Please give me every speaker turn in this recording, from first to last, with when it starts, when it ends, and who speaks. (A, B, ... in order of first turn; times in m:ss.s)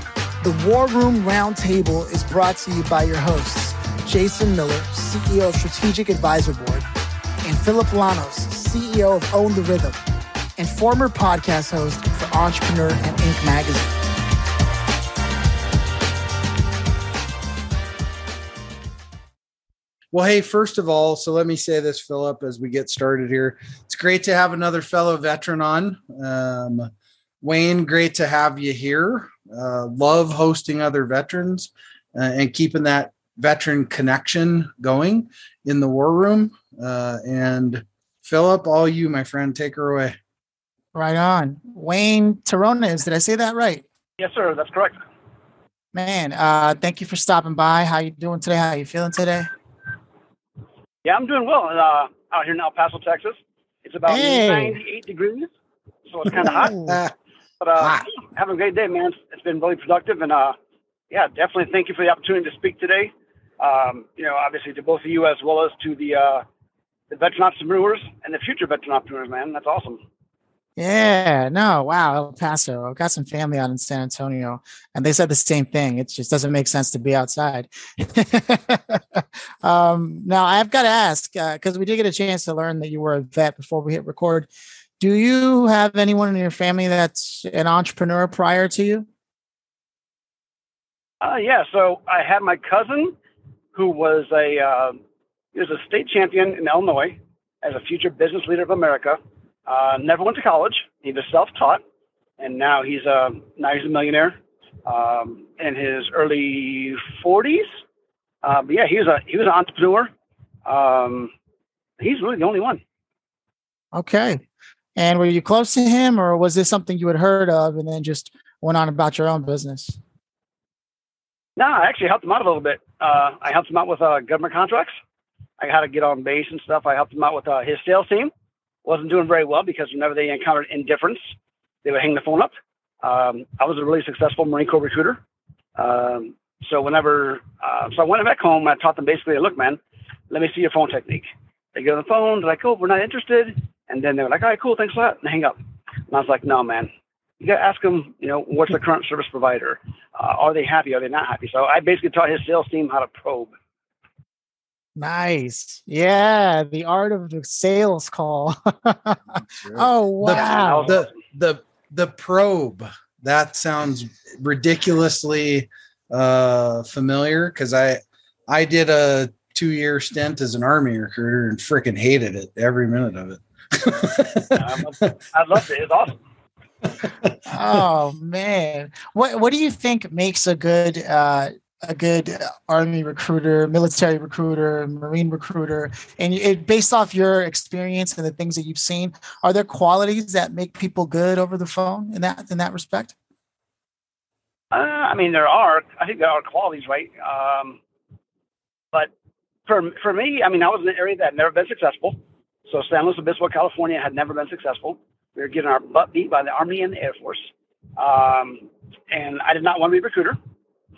0:00.4-0:06.9 A
0:07.4-0:10.0 A
0:10.6-0:14.0 A
0:20.1-0:26.9 B
0:27.4-0:40.2 B
0:40.9-0:43.8 A
0:44.2-0:45.0 C
0:45.9-0:49.5 A
0:51.0-0:55.5 C
0:54.1-0:54.8 A
0:56.1-0:56.8 C
0:56.4-0:57.1 B
0:56.4-0:57.0 A
0:57.6-1:00.5 C
0:57.8-0:58.0 B
1:01.1-1:06.4 C
1:07.1-1:10.0 C
1:10.8-1:29.1 A
1:31.2-1:33.2 C
1:33.7-1:35.0 C
1:35.5-1:41.8 C
1:42.4-1:47.7 C
1:48.4-1:50.1 C
1:50.6-1:51.3 C
1:52.0-1:52.8 C
1:53.9-1:54.4 A
1:55.0-2:00.0 A
2:01.6-2:04.9 C
2:05.6-2:08.3 C
2:08.8-2:11.2 C
2:11.8-2:15.2 C
2:15.8-2:19.8 C
2:20.3-2:25.6 C
2:26.1-2:33.5 C
2:35.0-2:39.2 A
2:39.4-2:54.5 B
2:39.7-2:40.9 A
2:40.3-2:41.1 C
2:54.5-2:56.2 C
2:57.5-3:13.1 A
3:14.7-3:17.8 C
3:19.7-3:22.2 C
3:22.7-3:30.4 C